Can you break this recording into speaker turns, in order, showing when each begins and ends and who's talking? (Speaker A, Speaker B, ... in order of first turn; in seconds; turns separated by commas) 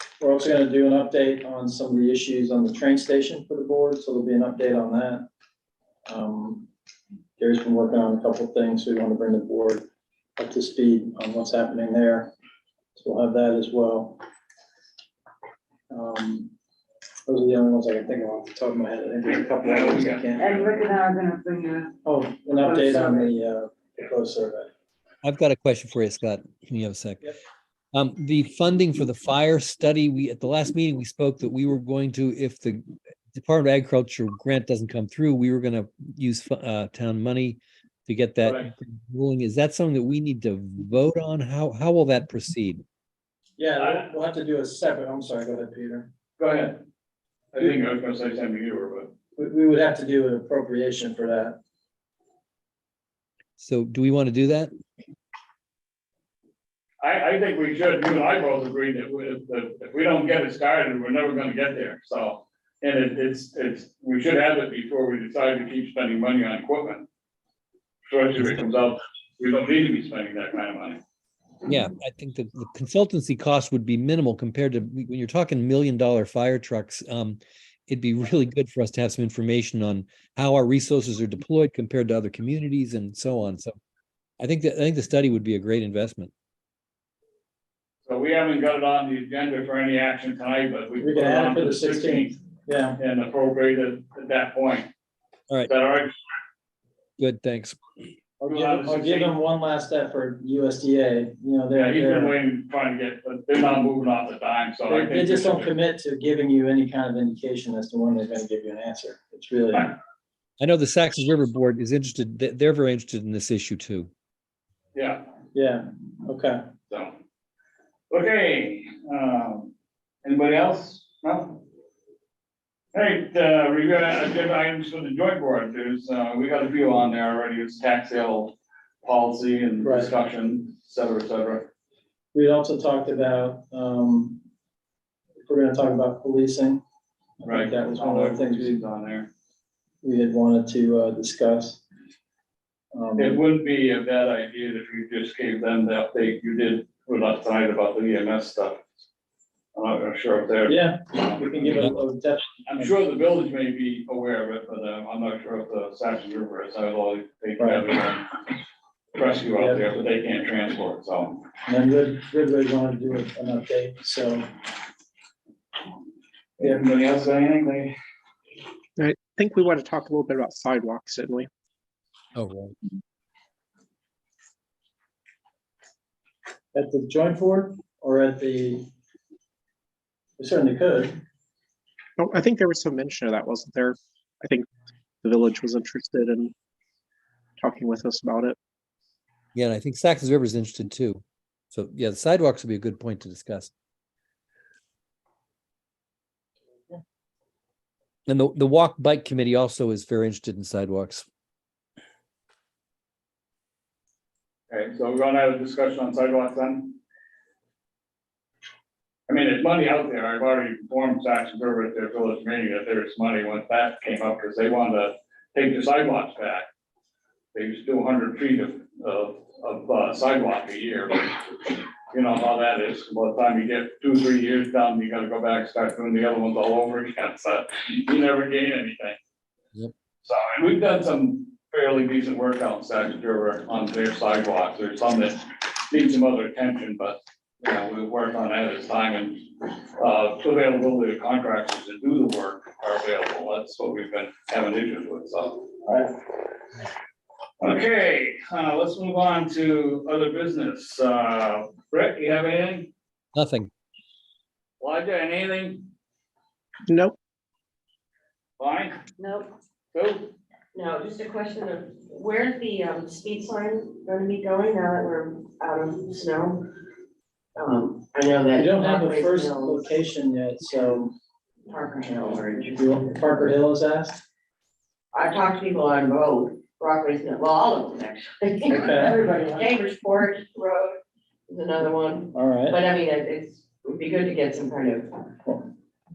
Speaker A: 0.2-5.2, Speaker A: 6.1-6.7, Speaker A: 7.4-9.8, Speaker A: 10.4-12.3, Speaker A: 13.0-14.2, Speaker A: 15.9-16.5, Speaker A: 17.3-20.4, Speaker B: 19.3-20.8, Speaker C: 20.4-21.9, Speaker A: 22.1-24.7, Speaker C: 22.5-23.3, Speaker D: 25.2-27.3, Speaker D: 27.9-42.8, Speaker B: 38.4-38.7, Speaker A: 43.6-46.1, Speaker B: 43.8-44.1, Speaker B: 46.4-46.8, Speaker B: 47.5-49.1, Speaker A: 49.4-51.6, Speaker D: 53.6-54.7, Speaker B: 57.0-67.1, Speaker B: 68.1-71.0, Speaker D: 71.7-83.7, Speaker D: 84.4-86.3, Speaker B: 88.1-92.4, Speaker A: 91.0-93.0, Speaker B: 93.0-94.9, Speaker B: 95.7-96.2, Speaker D: 97.2-97.8, Speaker A: 98.4-102.3, Speaker B: 98.5-99.3, Speaker B: 101.7-105.7, Speaker A: 104.9-109.9, Speaker D: 110.6-114.1, Speaker B: 114.9-115.2, Speaker A: 115.5-116.6, Speaker B: 118.1-119.7, Speaker B: 120.2-121.6, Speaker B: 122.9-131.7, Speaker A: 129.8-130.1, Speaker A: 132.3-134.4, Speaker A: 135.5-136.8, Speaker A: 137.4-138.8, Speaker B: 137.4-139.3, Speaker A: 140.0-141.8, Speaker A: 142.9-143.3, Speaker B: 143.2-148.8, Speaker B: 149.8-151.8, Speaker A: 150.7-152.9, Speaker B: 152.7-158.2, Speaker B: 159.1-161.4, Speaker A: 161.7-164.5, Speaker B: 166.6-167.9, Speaker E: 169.0-171.5, Speaker D: 172.3-172.7, Speaker A: 176.7-178.8, Speaker A: 180.4-181.2, Speaker E: 182.2-184.7, Speaker E: 185.2-186.5, Speaker E: 187.6-188.6, Speaker D: 189.5-193.7, Speaker D: 198.3-201.2, Speaker B: 204.7-207.0, Speaker B: 209.3-216.7, Speaker B: 217.5-229.2, Speaker B: 230.2-245.7, Speaker B: 247.6-252.9, Speaker D: 253.3-253.7, Speaker B: 254.8-255.9, Speaker E: 256.9-257.2, Speaker B: 258.6-259.0, Speaker C: 259.2-259.5, Speaker B: 259.9-260.3, Speaker F: 260.7-266.6, Speaker F: 267.6-270.0, Speaker A: 268.6-271.1, Speaker F: 271.7-273.5, Speaker A: 272.7-274.2, Speaker F: 275.1-281.0, Speaker A: 278.7-279.1, Speaker F: 281.5-285.3, Speaker A: 282.4-282.8